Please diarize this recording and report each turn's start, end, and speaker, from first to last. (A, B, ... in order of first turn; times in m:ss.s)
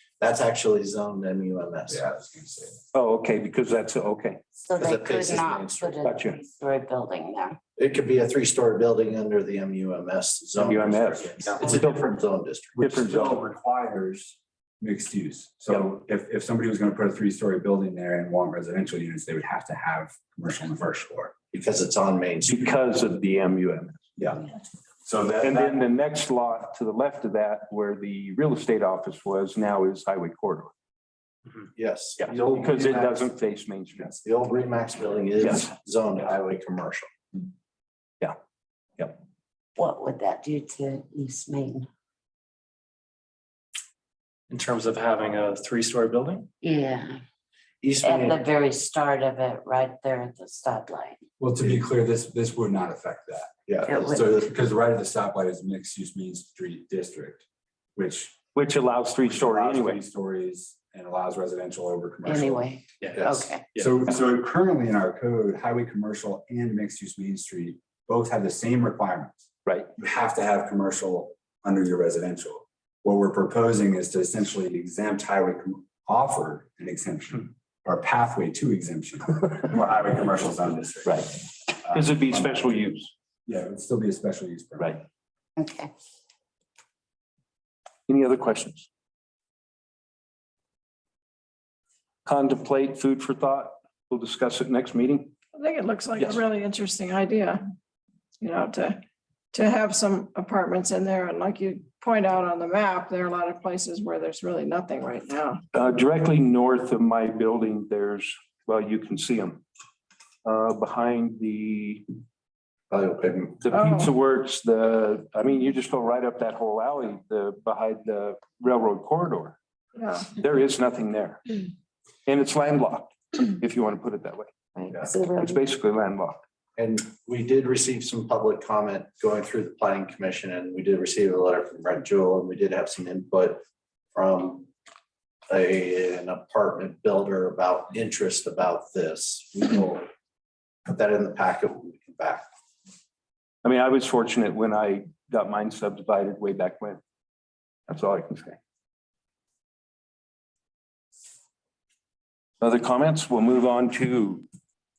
0:00.2-0:02.0 A
0:01.9-0:02.8 B
0:02.9-0:04.4 C
0:04.6-0:07.6 D
0:04.8-0:06.0 A
0:06.0-0:06.4 C
0:07.8-0:12.9 A
0:10.6-0:11.9 C
0:11.3-0:11.6 B
0:12.8-0:21.3 B
0:12.8-0:13.4 C
0:21.5-0:22.8 A
0:22.4-0:24.0 C
0:24.2-0:24.5 B
0:25.0-0:25.8 B
0:25.4-0:30.7 C
0:31.7-0:33.2 A
0:32.2-0:34.1 C
0:34.2-0:37.1 A
0:35.4-0:35.7 C
0:39.8-0:41.9 D
0:44.5-0:46.5 E
0:46.6-0:47.2 D
0:47.8-0:48.4 A
0:48.0-0:51.2 D
0:51.4-0:57.4 B
0:53.7-0:54.0 A
0:53.9-0:54.5 D
0:58.0-0:58.4 B
0:58.5-1:00.0 C
0:59.2-1:02.7 B
1:02.2-1:03.6 D
1:03.7-1:22.8 B
1:21.0-1:23.1 C
1:23.4-1:25.0 B
1:25.6-1:25.9 D
1:28.1-1:28.9 C
1:32.2-1:35.4 C
1:35.5-1:37.6 F
1:36.2-1:36.4 C
1:38.4-1:39.0 F
1:39.5-1:45.6 F
1:45.7-1:49.6 C
1:50.4-1:52.0 C
1:52.9-1:53.6 A
1:53.6-1:59.6 C
1:53.7-1:54.1 F
2:00.0-2:00.3 F
2:00.4-2:01.6 C
2:02.2-2:06.4 C
2:04.8-2:05.6 D
2:06.8-2:13.6 A
2:14.1-2:14.7 A
2:15.5-2:20.0 A
2:20.8-2:22.5 A
2:23.6-2:27.0 C
2:27.9-2:28.6 C
2:32.6-2:34.4 C